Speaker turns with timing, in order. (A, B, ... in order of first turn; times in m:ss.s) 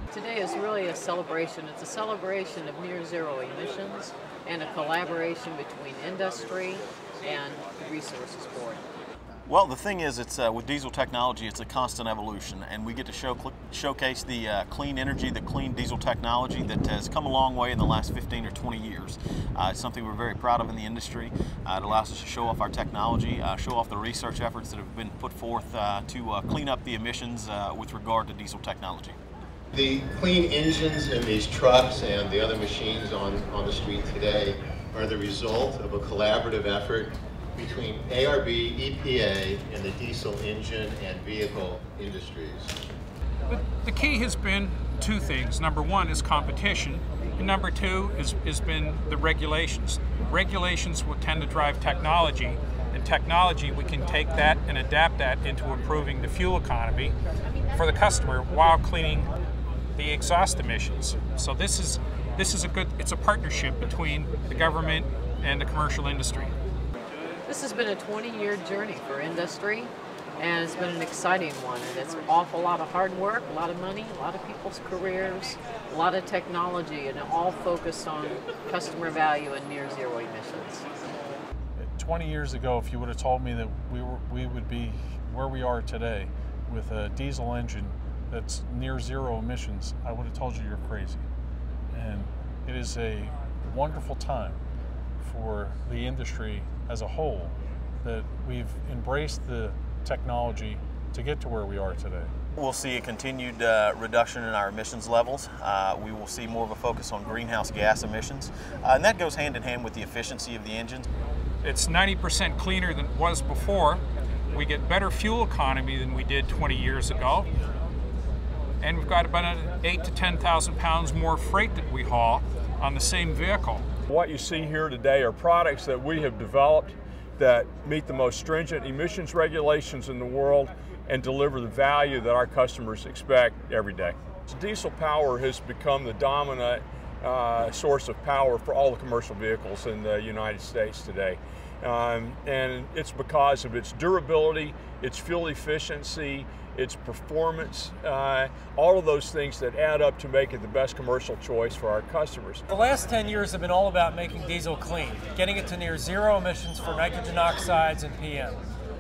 0:00.1-0:08.8 A
0:09.5-0:29.2 B
0:29.7-0:42.8 C
0:43.5-0:57.1 D
0:57.7-0:59.3 D
0:59.9-1:06.6 D
1:07.5-1:20.8 A
1:21.8-1:31.2 E
1:31.9-1:34.6 E
1:35.2-1:42.3 E
1:42.6-1:51.0 B
1:51.6-1:57.5 D
1:58.8-2:03.8 D
2:04.1-2:32.6 F
2:32.7-2:38.6 G